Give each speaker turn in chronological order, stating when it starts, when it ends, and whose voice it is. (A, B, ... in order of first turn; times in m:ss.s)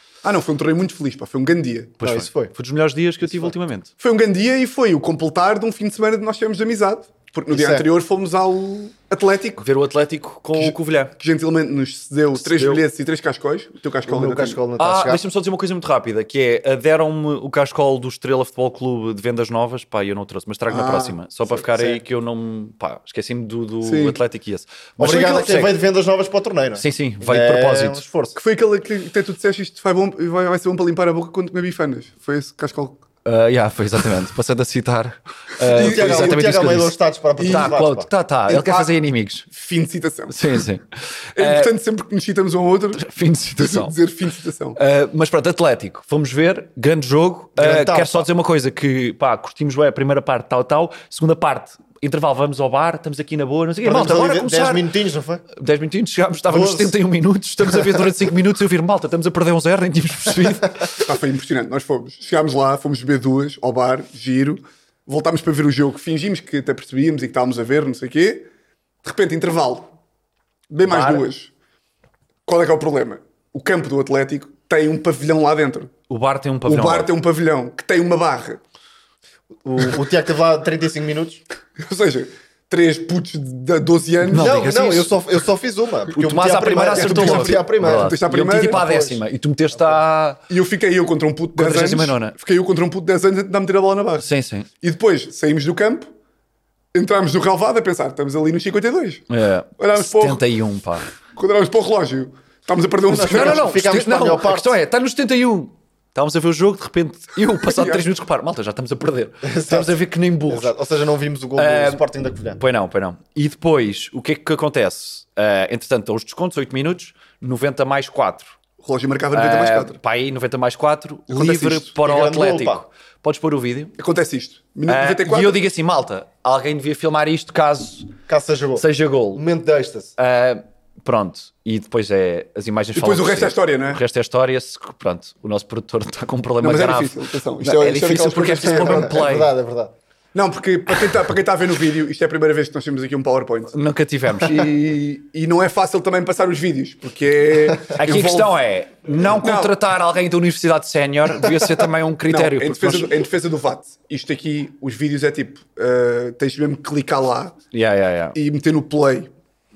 0:00.2-0:02.0 A
0:02.0-0:03.9 B
0:02.0-0:02.5 C
0:03.2-0:03.5 C
0:04.0-0:09.6 A
0:07.5-0:07.8 C
0:09.6-0:11.1 B
0:10.5-0:14.6 A
0:12.4-0:12.8 B
0:14.1-0:15.2 C
0:14.8-0:25.7 B
0:20.7-0:21.2 A
0:21.6-0:22.0 C
0:23.8-0:24.2 A
0:25.0-0:28.4 C
0:25.0-0:25.6 A
0:26.8-0:28.0 B
0:28.3-0:33.0 A
0:33.2-0:39.5 B
0:35.6-0:36.4 A
0:35.7-0:38.1 C
0:37.4-0:37.8 A
0:38.5-0:38.9 A
0:39.5-0:40.6 A
0:40.3-0:41.7 B
0:41.4-0:44.8 A
0:43.0-0:43.9 B
0:44.8-0:54.8 B
0:47.6-0:48.3 C
0:53.8-0:55.4 C
0:55.5-1:01.0 B
0:56.5-0:57.0 C
1:01.0-1:08.5 A
1:09.0-1:09.9 A
1:10.7-1:11.5 A
1:10.8-1:11.2 B
1:12.4-1:15.9 A
1:16.1-1:17.1 B
1:16.6-1:18.6 A
1:19.6-1:21.4 C
1:21.8-1:24.7 A
1:24.3-1:25.1 B
1:24.3-1:29.2 C
1:26.1-1:30.4 B
1:26.7-1:28.8 A
1:30.5-1:34.2 A
1:31.6-1:32.3 B
1:34.2-1:34.7 B
1:34.8-1:36.1 A
1:36.9-1:39.3 A
1:39.3-1:41.1 B
1:39.8-1:40.4 A
1:41.3-1:43.7 A
1:43.1-1:44.8 C
1:43.2-1:50.7 B
1:47.6-1:48.0 A
1:49.4-1:52.6 C
1:51.6-1:52.0 B
1:52.6-1:58.5 B
1:58.8-2:00.0 A
1:59.3-2:03.9 B
2:01.3-2:01.9 A
2:02.0-2:02.8 C
2:04.0-2:05.6 A
2:04.9-2:08.1 B
2:08.3-2:10.1 C
2:08.8-2:09.4 B
2:10.2-2:19.5 B
2:12.9-2:14.0 A
2:16.6-2:19.2 A
2:18.2-2:19.9 C
2:20.3-2:23.7 A
2:23.7-2:24.9 B
2:24.4-2:28.6 A
2:28.0-2:33.1 B
2:29.2-2:29.7 A
2:32.3-2:37.6 A
2:37.7-2:38.4 B
2:38.3-2:39.3 A